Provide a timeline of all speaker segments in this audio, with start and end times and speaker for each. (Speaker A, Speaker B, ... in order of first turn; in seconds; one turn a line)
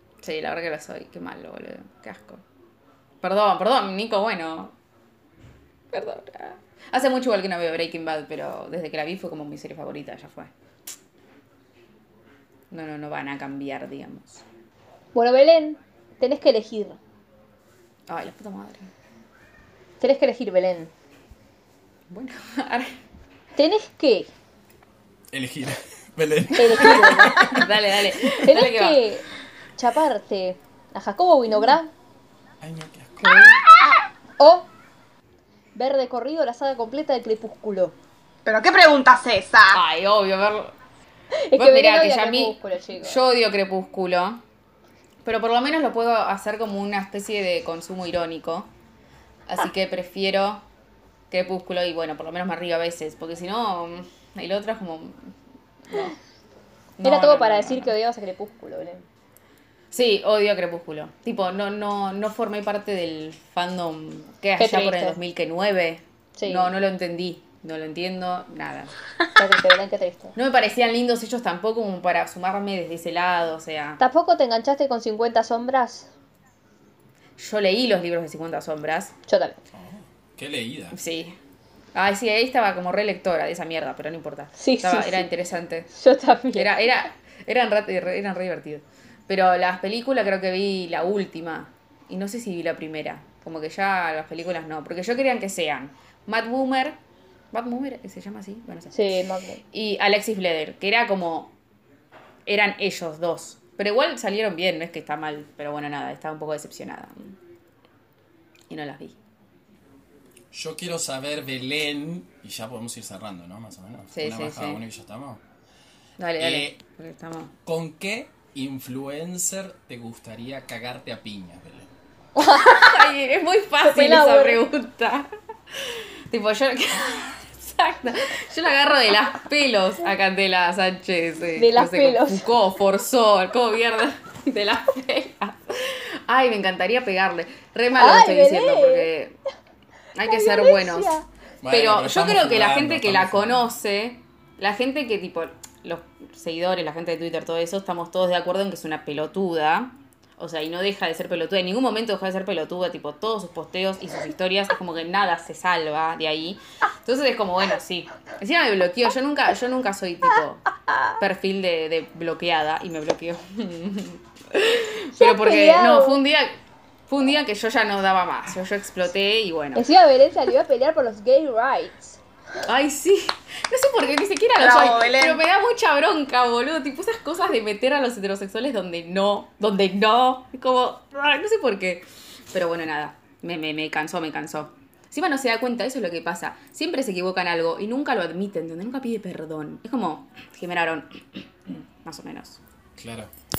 Speaker A: 0.2-2.4
Speaker A: 3.2-4.8
Speaker A: 5.9-10.5
Speaker A: 12.7-14.4
Speaker B: 15.1-17.0
Speaker A: 18.1-18.9
Speaker B: 20.0-20.9
Speaker A: 22.1-23.0
Speaker B: 23.6-24.3
Speaker C: 25.3-27.7
Speaker B: 26.5-27.6
Speaker A: 27.5-29.0
Speaker B: 28.4-29.2
Speaker B: 29.8-31.9
Speaker C: 32.6-33.5
Speaker A: 33.2-33.6
Speaker B: 34.4-34.7
Speaker B: 35.8-38.0
Speaker D: 38.5-39.8
Speaker A: 39.7-40.7
Speaker B: 41.4-43.2
Speaker A: 41.5-44.4
Speaker A: 45.2-48.7
Speaker A: 49.5-50.6
Speaker A: 51.3-55.3
Speaker A: 55.9-56.2
Speaker A: 57.0-57.9
Speaker B: 57.0-59.0
Speaker A: 59.9-68.9
Speaker B: 64.6-65.2
Speaker B: 66.3-66.7
Speaker B: 69.4-70.3
Speaker A: 70.4-74.0
Speaker B: 74.0-76.1
Speaker A: 77.4-79.1
Speaker B: 79.3-79.6
Speaker C: 79.7-81.0
Speaker A: 80.9-81.4
Speaker A: 81.9-85.9
Speaker B: 84.6-85.3
Speaker B: 85.9-86.7
Speaker A: 86.5-97.0
Speaker A: 97.5-99.0
Speaker B: 98.9-99.6
Speaker A: 99.7-101.5
Speaker A: 102.5-107.4
Speaker A: 108.7-109.2
Speaker C: 110.5-115.4
Speaker A: 114.1-114.8
Speaker A: 116.2-117.5
Speaker C: 116.4-116.8
Speaker C: 117.7-121.9
Speaker B: 122.4-123.0
Speaker A: 122.6-139.4
Speaker B: 123.8-124.6
Speaker B: 131.6-132.5
Speaker B: 138.0-139.1
Speaker A: 140.2-141.1
Speaker B: 140.2-141.3
Speaker C: 141.6-143.7
Speaker A: 141.7-169.9
Speaker B: 165.2-166.2
Speaker B: 169.8-172.2
Speaker A: 172.7-192.6
Speaker D: 174.6-175.4
Speaker C: 193.0-193.3